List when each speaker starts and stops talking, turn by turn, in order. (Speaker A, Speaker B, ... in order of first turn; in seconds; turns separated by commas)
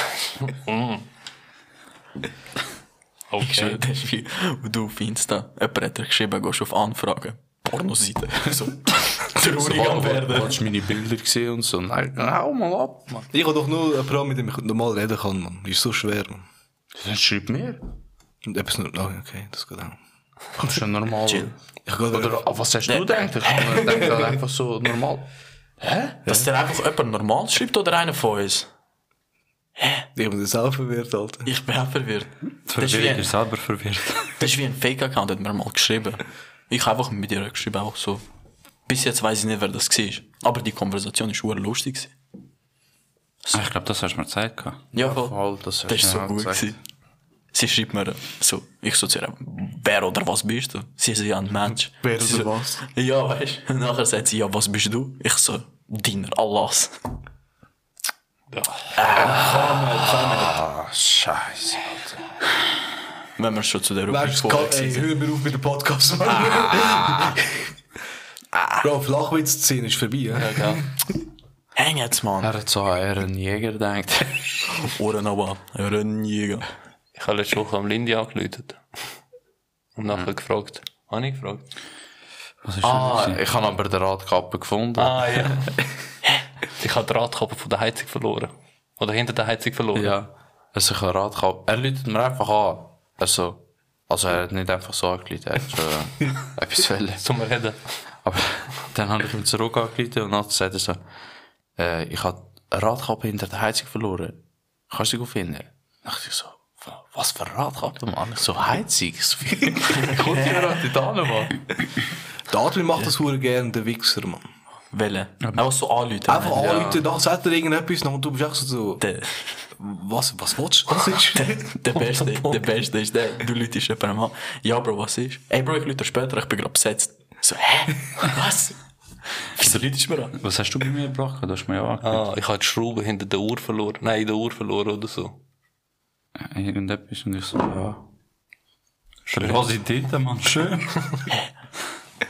Speaker A: 0.4-1.1, Speaker A: 3.3-3.8, Speaker B: 3.4-10.6, Speaker C: 9.5-13.3, Speaker D: 13.3-16.4, Speaker C: 16.9-17.8, Speaker D: 18.5-20.0, Speaker C: 20.6-21.5, Speaker B: 21.3-21.5, Speaker D: 21.9-22.4, Speaker C: 22.1-25.3, Speaker B: 22.9-24.2, Speaker B: 26.2-28.7, Speaker B: 29.8-30.1, Speaker D: 30.2-31.5, Speaker B: 31.4-33.3, Speaker E: 32.7-34.5, Speaker B: 34.4-38.2, Speaker B: 38.9-42.1, Speaker E: 43.5-44.8, Speaker C: 44.9-46.7, Speaker B: 45.0-45.3, Speaker B: 45.9-46.8, Speaker B: 47.5-57.0, Speaker D: 52.0-52.8, Speaker A: 58.5-59.0, Speaker B: 59.0-60.2, Speaker D: 59.1-60.5, Speaker C: 59.1-61.9, Speaker B: 63.4-65.1, Speaker D: 64.1-67.5, Speaker C: 66.3-67.4, Speaker D: 68.8-70.9, Speaker A: 70.3-70.8, Speaker B: 71.8-72.5, Speaker C: 72.4-74.5, Speaker B: 74.8-76.7, Speaker A: 77.2-78.8, Speaker A: 80.0-81.7, Speaker E: 82.6-83.4, Speaker C: 82.8-85.7, Speaker A: 85.0-85.7, Speaker A: 86.8-90.2, Speaker C: 90.0-97.2, Speaker A: 97.2-97.8, Speaker C: 98.2-101.0, Speaker C: 101.8-111.6, Speaker B: 110.0-110.7, Speaker D: 112.5-114.4, Speaker B: 114.9-117.0, Speaker D: 116.3-119.0, Speaker B: 119.0-119.5, Speaker D: 119.8-121.6, Speaker B: 120.9-128.8, Speaker A: 122.0-122.7, Speaker B: 129.4-130.3, Speaker E: 129.6-132.3, Speaker A: 132.0-135.4, Speaker E: 136.4-138.0, Speaker E: 139.3-141.3